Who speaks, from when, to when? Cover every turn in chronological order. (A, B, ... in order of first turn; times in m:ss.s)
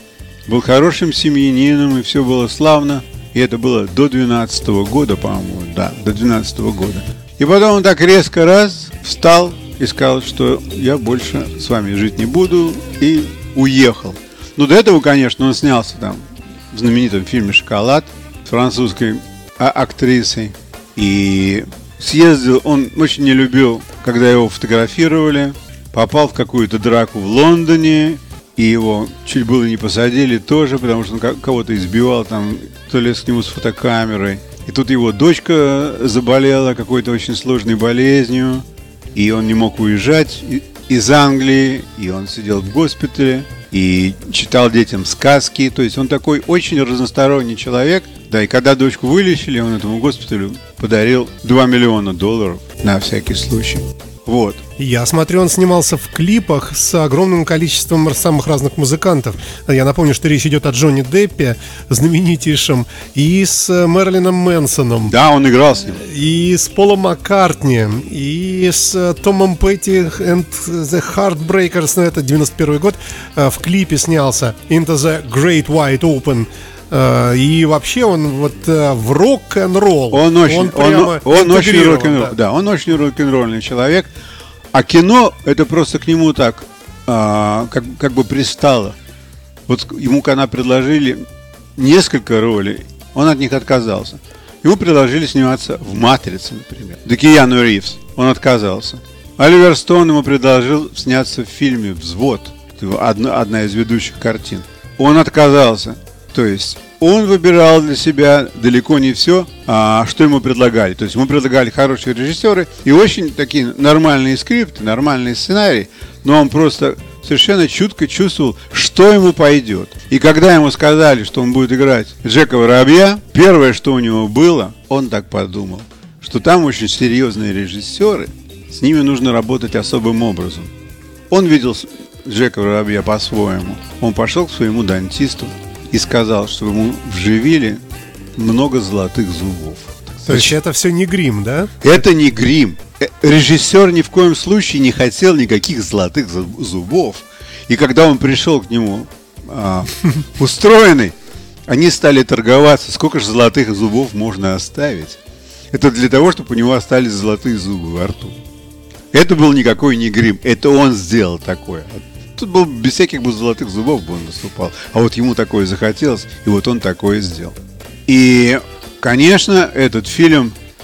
0:00.5-0:54.6 A
0:54.8-1:05.1 B
1:05.1-1:06.0 A
1:05.9-1:22.3 B
1:20.1-1:24.1 A
1:24.7-1:29.0 A
1:29.7-1:31.2 A
1:31.8-2:10.7 A
2:11.3-2:17.8 A
2:18.4-2:20.6 A
2:20.3-2:21.7 B
2:21.8-2:31.2 A
2:31.7-2:35.2 A
2:35.7-2:38.4 A
2:39.1-2:50.6 A